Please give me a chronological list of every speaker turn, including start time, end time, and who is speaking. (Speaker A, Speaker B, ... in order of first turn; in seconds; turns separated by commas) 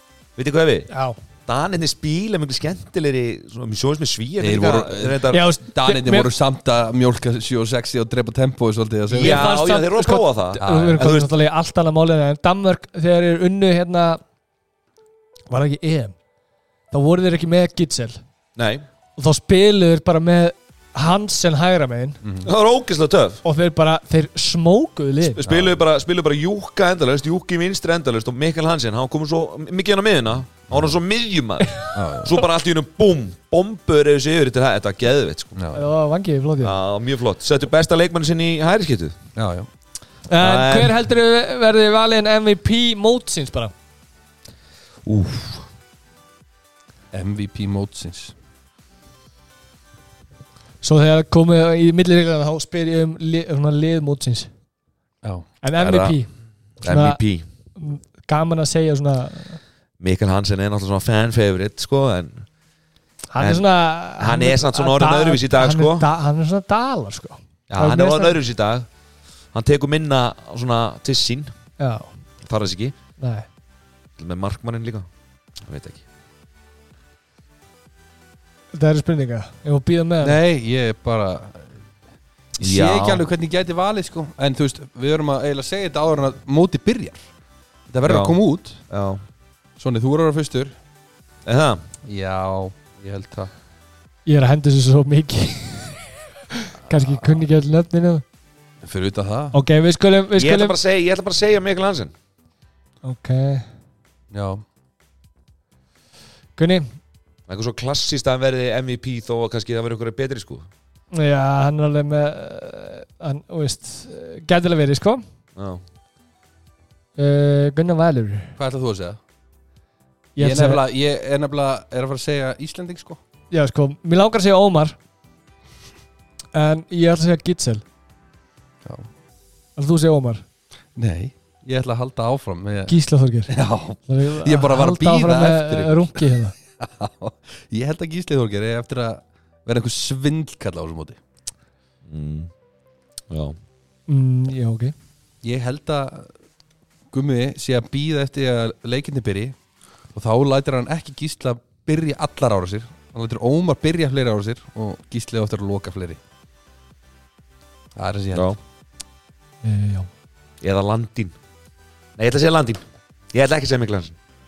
Speaker A: 0.4-0.9, Speaker B: 0.9-1.2, Speaker A: 1.5-5.4, Speaker C: 4.4-9.5, Speaker B: 5.3-6.3, Speaker A: 9.1-11.3, Speaker B: 9.1-14.2, Speaker C: 10.6-11.1, Speaker B: 15.5-16.1, Speaker B: 16.9-18.2, Speaker A: 18.6-18.9, Speaker B: 19.2-22.2, Speaker C: 22.2-22.5, Speaker A: 22.4-23.4, Speaker B: 23.4-25.6, Speaker A: 25.3-35.6, Speaker C: 31.9-32.3, Speaker C: 35.6-35.8, Speaker B: 35.7-36.7, Speaker A: 36.6-39.1, Speaker C: 39.4-39.7, Speaker B: 40.3-43.7, Speaker A: 40.4-40.9, Speaker A: 45.0-45.7, Speaker C: 47.1-48.3, Speaker B: 50.8-54.5, Speaker C: 55.2-56.1, Speaker B: 55.6-56.3, Speaker A: 56.8-57.5, Speaker B: 56.8-57.2, Speaker B: 57.8-59.6, Speaker A: 60.0-62.5, Speaker B: 63.3-68.4, Speaker A: 63.4-63.7, Speaker A: 64.2-66.1, Speaker A: 67.7-68.9, Speaker A: 69.5-71.5, Speaker B: 71.8-72.1, Speaker A: 72.4-73.0, Speaker B: 73.2-73.5, Speaker A: 74.2-75.1, Speaker A: 75.6-76.0, Speaker B: 78.7-80.4, Speaker C: 80.2-81.7, Speaker C: 82.6-87.2, Speaker A: 82.6-83.2, Speaker C: 87.9-88.8, Speaker A: 88.0-89.2, Speaker C: 89.8-90.8, Speaker A: 91.5-91.8, Speaker C: 92.1-93.5, Speaker B: 94.3-98.2, Speaker C: 97.0-97.4, Speaker C: 98.8-99.6, Speaker B: 99.5-100.8, Speaker A: 100.4-102.1, Speaker B: 103.0-103.7, Speaker C: 104.3-104.6, Speaker B: 106.6-106.9, Speaker A: 107.5-110.7, Speaker B: 111.1-115.2, Speaker A: 115.6-115.8, Speaker B: 117.2-118.5, Speaker C: 118.6-119.2, Speaker B: 120.4-120.8, Speaker C: 120.4-123.2, Speaker B: 123.5-125.0, Speaker B: 126.5-127.8, Speaker B: 129.8-130.4, Speaker C: 131.0-133.0, Speaker B: 132.9-133.5, Speaker C: 133.5-141.2, Speaker B: 134.1-136.6, Speaker A: 142.1-142.5, Speaker A: 143.3-143.6, Speaker B: 144.1-144.9, Speaker C: 145.4-146.3, Speaker C: 147.1-149.6, Speaker C: 150.1-156.2, Speaker C: 158.0-158.5, Speaker B: 159.6-160.1, Speaker A: 160.6-161.3, Speaker A: 162.2-164.2